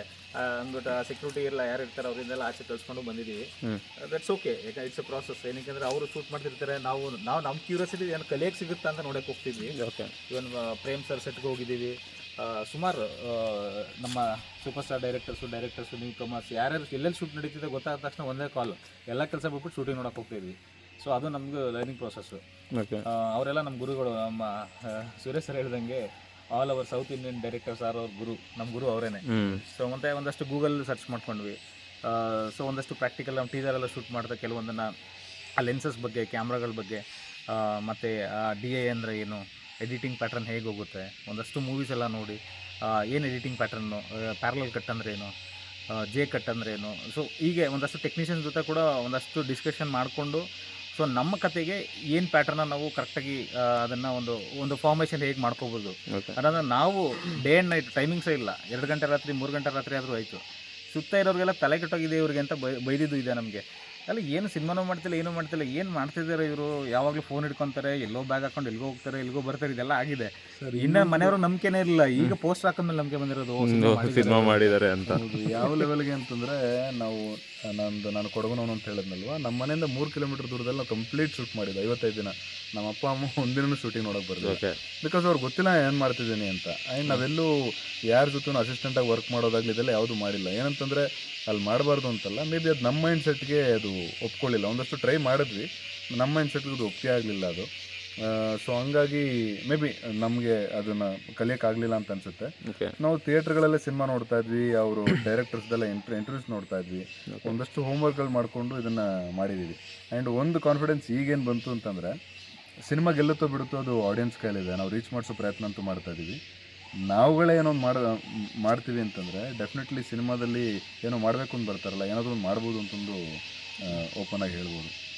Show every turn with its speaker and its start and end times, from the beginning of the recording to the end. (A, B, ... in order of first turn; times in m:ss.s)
0:00.4-0:03.5 A
0:04.0-0:09.8 A
0:09.8-0:10.1 B
0:10.3-0:22.4 A
0:22.8-0:23.0 B
0:23.1-0:26.0 A
0:26.5-0:34.9 A
0:29.3-0:29.6 B
0:35.6-0:45.3 A
0:46.0-0:50.4 A
0:51.0-1:14.8 A
0:56.1-0:56.4 B
1:10.6-1:11.4 C
1:13.6-1:15.9 B
1:15.1-1:27.5 C
1:24.4-1:24.8 B
1:28.1-1:37.7 C
1:38.2-1:52.1 C
1:42.6-1:43.0 B
1:52.8-1:56.4 C
1:57.1-2:03.2 C
2:03.8-2:04.9 C